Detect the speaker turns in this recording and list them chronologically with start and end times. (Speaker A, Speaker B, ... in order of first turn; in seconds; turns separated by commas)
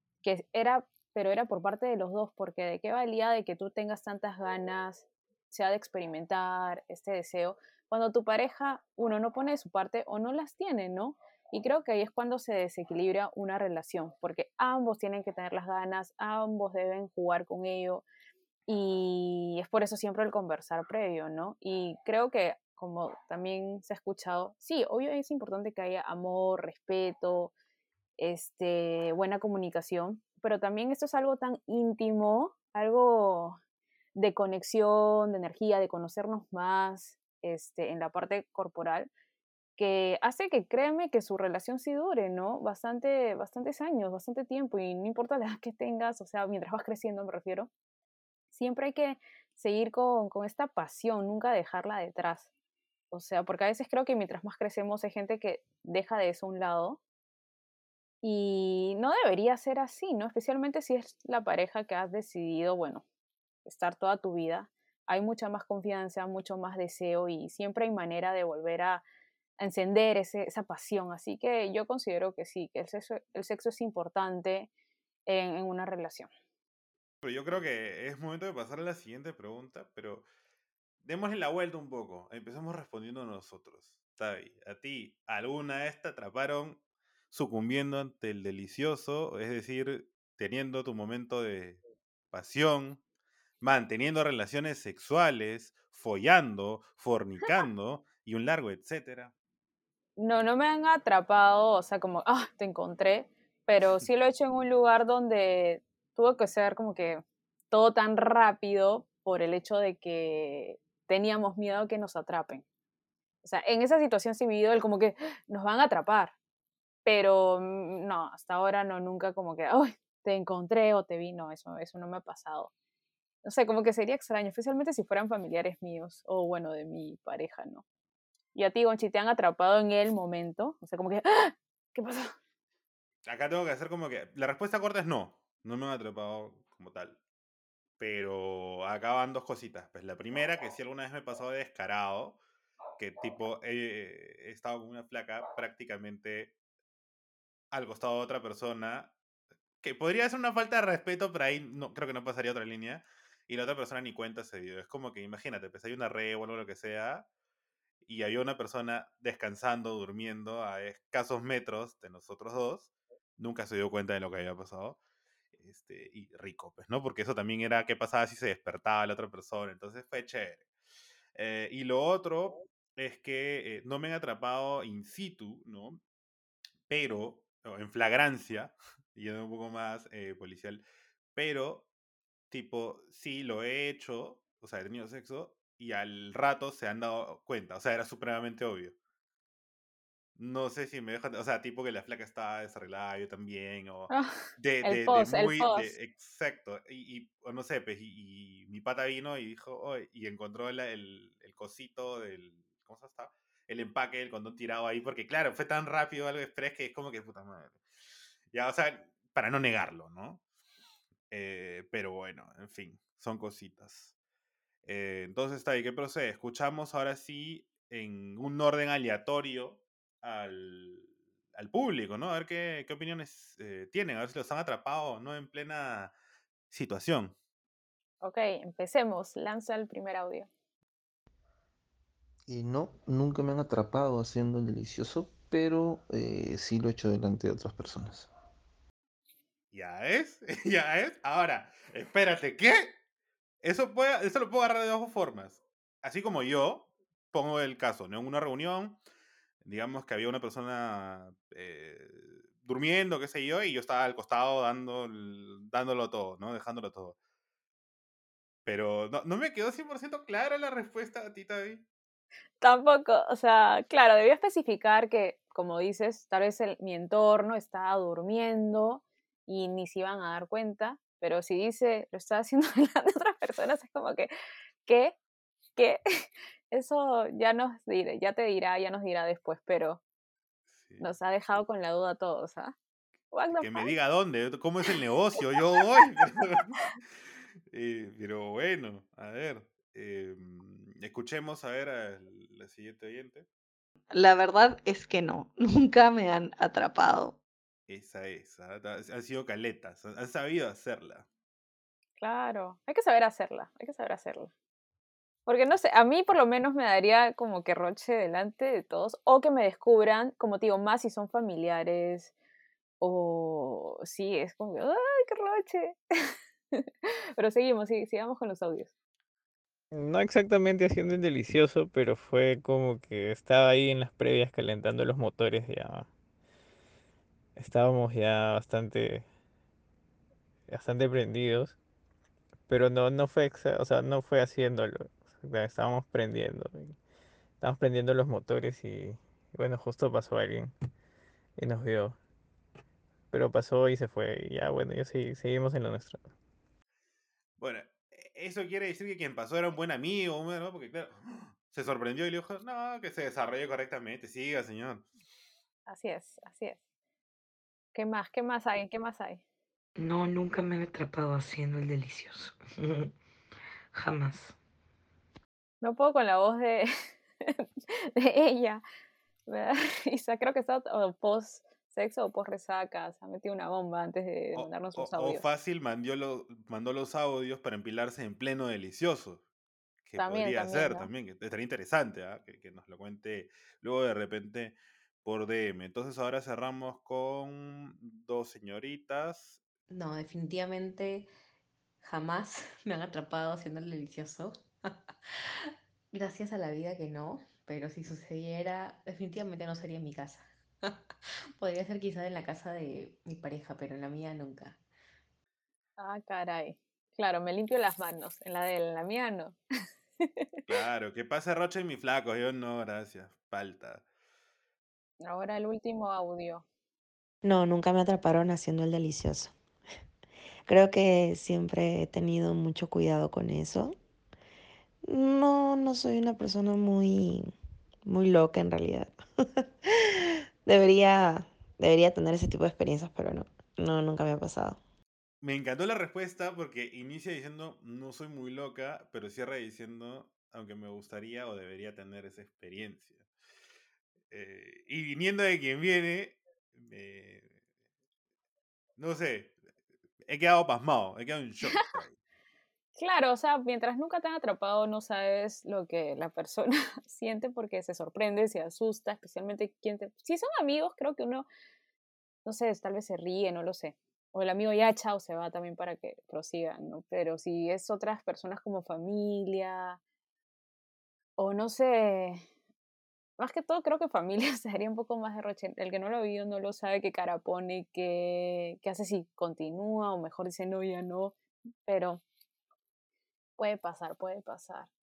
Speaker A: 0.2-18.1, Speaker A: 18.7-27.5, Speaker A: 28.2-33.6, Speaker A: 34.1-39.1, Speaker A: 39.8-47.7, Speaker A: 48.5-52.5, Speaker A: 53.1-57.0, Speaker A: 58.2-63.0, Speaker A: 63.6-69.0, Speaker A: 69.6-74.7, Speaker A: 75.3-76.3, Speaker B: 77.2-80.3, Speaker B: 81.0-91.8, Speaker B: 92.3-93.0, Speaker B: 93.6-99.3, Speaker A: 100.2-112.7, Speaker A: 113.4-116.3, Speaker A: 117.0-122.7, Speaker A: 123.4-127.8, Speaker A: 128.6-132.3, Speaker B: 133.2-137.2, Speaker B: 138.0-142.4, Speaker B: 143.0-146.5, Speaker B: 147.7-149.1, Speaker B: 149.8-157.3, Speaker B: 158.1-165.0, Speaker B: 165.6-170.7, Speaker B: 171.3-176.0, Speaker B: 176.9-180.8, Speaker B: 181.3-181.9, Speaker B: 182.5-188.9, Speaker B: 190.4-207.8, Speaker A: 194.1-195.9, Speaker B: 208.5-210.4, Speaker B: 211.3-214.2, Speaker B: 214.8-226.1, Speaker B: 226.7-227.4, Speaker A: 228.2-230.5, Speaker C: 232.5-238.3, Speaker B: 239.7-242.9, Speaker B: 243.6-249.0, Speaker B: 249.6-257.2, Speaker B: 258.7-261.9, Speaker A: 262.6-274.3, Speaker A: 274.9-275.2, Speaker A: 275.8-276.0, Speaker A: 276.7-280.0, Speaker B: 280.7-281.1, Speaker A: 281.0-282.7, Speaker A: 283.3-283.9, Speaker B: 283.6-286.9, Speaker B: 287.7-293.5, Speaker D: 294.1-297.4, Speaker B: 297.9-301.3, Speaker A: 302.2-304.5, Speaker A: 305.5-312.3, Speaker A: 313.0-316.9, Speaker A: 317.4-318.9, Speaker E: 319.9-326.1, Speaker E: 327.6-329.3, Speaker E: 330.7-331.8, Speaker E: 332.7-336.9, Speaker E: 337.6-340.7, Speaker E: 341.6-342.2, Speaker E: 343.3-346.2, Speaker B: 347.6-355.1, Speaker A: 355.9-356.8, Speaker A: 357.9-359.4, Speaker F: 360.0-363.1, Speaker F: 364.0-364.6, Speaker A: 365.8-366.9, Speaker A: 367.4-368.8, Speaker A: 369.5-375.4, Speaker B: 374.6-379.4, Speaker B: 380.1-389.6, Speaker A: 380.2-381.1, Speaker G: 389.9-391.3, Speaker G: 392.0-394.9, Speaker G: 395.6-400.9, Speaker G: 401.6-404.8, Speaker A: 406.0-409.6, Speaker A: 410.2-410.5, Speaker B: 410.7-414.0, Speaker A: 415.2-416.6, Speaker H: 417.4-419.5, Speaker H: 420.7-423.9, Speaker H: 425.1-427.5, Speaker H: 428.0-434.8, Speaker B: 435.4-443.3, Speaker B: 444.3-447.6, Speaker B: 449.0-449.6, Speaker B: 450.2-452.2, Speaker A: 453.0-461.5, Speaker A: 462.4-470.0, Speaker A: 471.4-472.4, Speaker A: 473.4-481.4, Speaker A: 481.9-482.2, Speaker A: 483.6-484.9